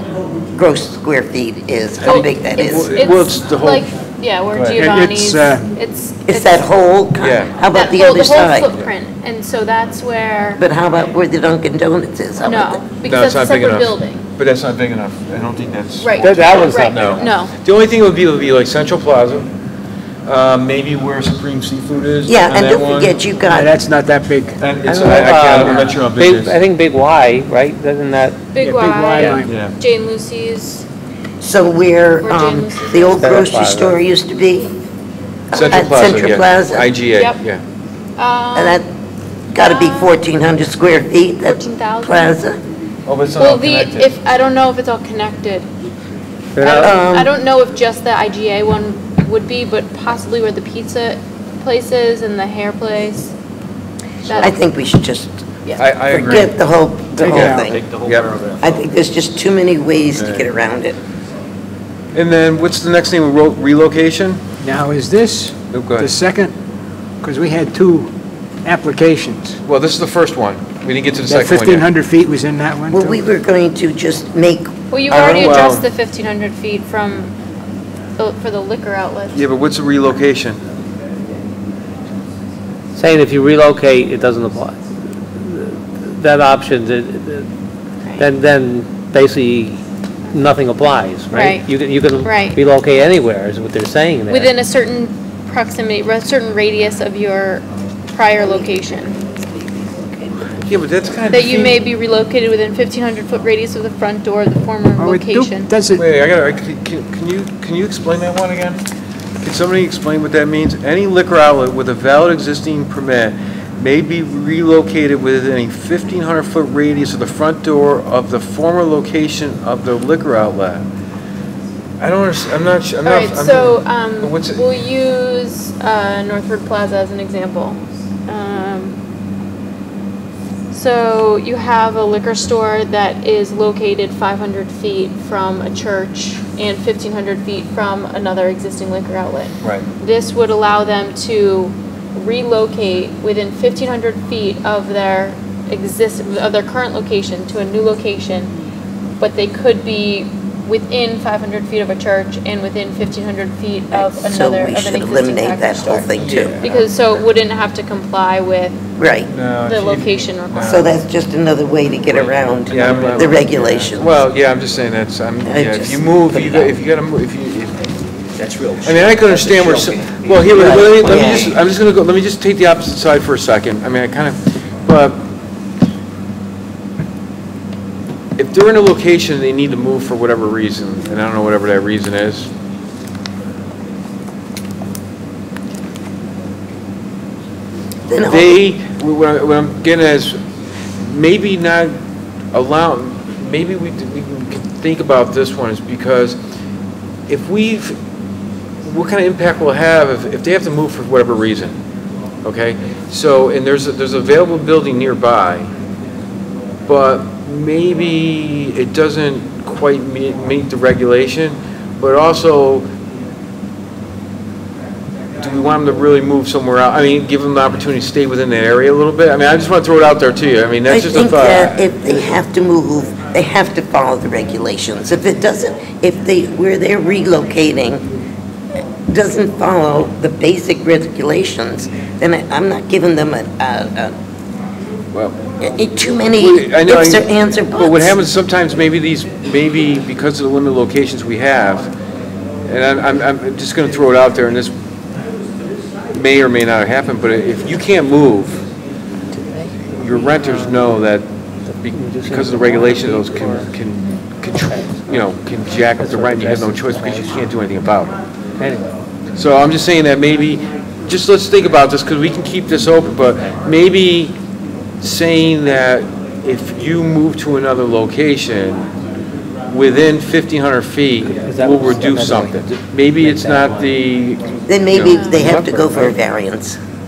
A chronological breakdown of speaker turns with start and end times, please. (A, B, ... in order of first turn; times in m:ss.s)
0:00.5-0:02.9 A
0:02.0-0:03.9 B
0:02.0-0:06.7 C
0:04.5-0:04.9 B
0:04.8-0:05.7 D
0:06.3-0:08.7 A
0:07.2-0:07.6 B
0:07.7-0:10.6 C
0:10.6-0:12.8 A
0:12.4-0:14.2 C
0:13.0-0:19.5 B
0:16.0-0:17.5 C
0:16.2-0:17.3 E
0:20.2-0:23.2 B
0:22.3-0:23.7 A
0:23.5-0:24.7 D
0:24.6-0:26.6 B
0:24.9-0:28.5 E
0:28.5-0:30.8 C
0:28.6-0:29.5 D
0:29.1-0:29.4 E
0:29.4-0:29.7 B
0:31.4-0:34.7 A
0:32.2-0:33.4 C
0:33.2-0:34.0 E
0:35.5-0:36.9 A
0:35.5-0:37.6 B
0:35.6-0:35.9 C
0:37.2-0:37.4 C
0:38.2-0:38.8 C
0:38.6-0:38.9 A
0:39.5-0:40.2 C
0:39.5-0:42.6 A
0:41.4-0:42.4 C
0:43.1-0:44.2 B
0:43.4-0:45.7 C
0:46.6-0:46.9 E
0:46.6-0:53.3 C
0:46.8-0:47.3 A
0:54.2-0:54.6 C
0:54.3-0:54.5 B
0:54.4-0:55.4 A
0:55.8-0:56.6 B
0:56.1-0:57.8 A
0:57.2-0:57.7 D
0:57.2-0:58.3 B
0:57.3-0:58.8 F
0:58.6-1:01.0 A
1:00.2-1:00.5 B
1:02.1-1:04.4 B
1:04.6-1:06.6 D
1:05.7-1:06.1 B
1:07.2-1:08.1 D
1:08.6-1:09.6 D
1:09.6-1:11.9 B
1:11.3-1:13.2 D
1:12.9-1:15.7 A
1:14.9-1:17.3 C
1:15.4-1:15.9 B
1:18.2-1:19.4 C
1:19.3-1:20.6 B
1:23.0-1:24.8 E
1:25.3-1:27.5 E
1:28.2-1:34.5 E
1:31.3-1:31.7 C
1:32.2-1:32.6 C
1:34.3-1:39.2 C
1:38.4-1:39.0 A
1:40.6-1:41.8 B
1:41.3-1:45.7 C
1:45.0-1:46.0 D
1:46.0-1:48.8 B
1:49.4-2:00.9 B
2:02.0-2:04.6 B
2:03.0-2:09.0 C
2:10.7-2:28.5 C
2:29.2-2:38.8 C
2:33.9-2:36.6 A
2:36.1-2:36.9 B
2:39.0-2:39.3 A
2:39.3-2:40.9 B
2:39.6-2:41.0 C
2:40.6-2:44.2 A
2:42.1-2:43.5 F
2:42.7-2:47.9 B
2:45.4-2:46.8 A
2:48.4-2:51.6 F
2:48.8-2:55.2 B
2:50.5-2:51.6 A
2:58.4-3:02.5 B
3:08.1-3:08.6 A
3:08.2-3:10.4 B
3:11.0-3:12.0 B
3:12.5-3:16.4 B
3:17.3-3:18.0 B
3:18.8-3:21.8 B
3:22.4-3:25.7 B
3:26.9-3:32.9 B
3:35.4-3:42.2 B
3:40.9-3:48.0 A
3:49.1-3:54.1 A
3:55.6-3:58.2 A
3:56.4-4:01.9 B
4:02.7-4:04.7 B
4:06.1-4:08.6 B
4:09.9-4:11.3 B
4:10.4-4:10.8 E
4:11.8-4:18.2 B
4:11.9-4:13.7 E
4:14.7-4:15.2 E
4:16.0-4:17.5 E
4:18.6-4:18.9 E
4:19.4-4:24.4 B
4:25.0-4:28.9 B
4:29.7-4:36.2 B
4:31.2-4:34.0 E
4:34.7-4:36.8 A
4:35.1-4:35.5 C